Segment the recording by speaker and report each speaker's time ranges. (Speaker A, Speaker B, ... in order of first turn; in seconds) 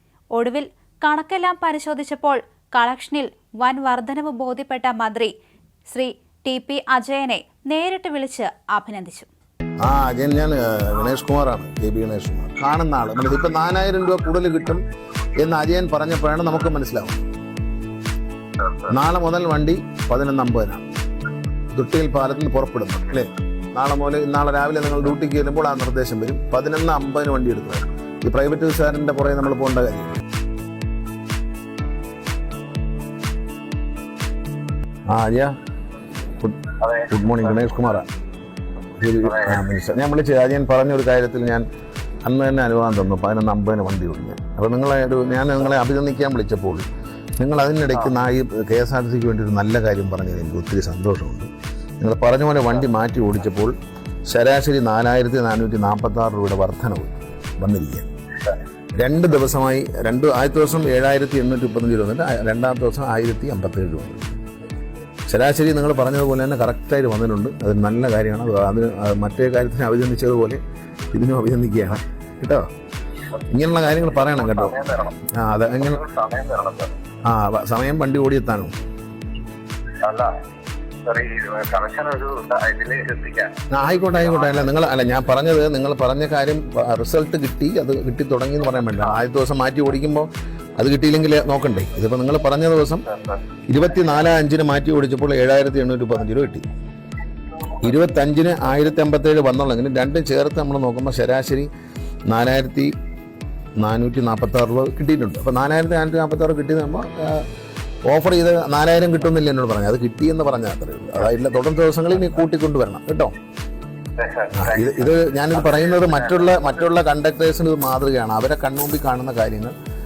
Speaker A: 0.3-5.3, 5.9-9.3
Speaker B: 9.8-14.8, 15.3-17.3, 18.9-20.8, 21.7-30.2, 35.1-35.5, 36.4-38.1, 39.0-41.6, 42.2-46.9, 47.4-53.7, 54.2-58.1, 59.0-64.4, 65.3-70.6, 71.1-72.7, 73.5-76.0, 77.2-78.7, 83.7-93.0, 93.7-96.7, 97.8-101.7, 102.3-102.9, 103.8-107.5, 108.0-113.3, 114.5-119.7
Speaker C: 36.8-37.1, 74.3-75.1, 75.9-76.9, 80.0-80.3, 81.0-83.6, 114.2-114.5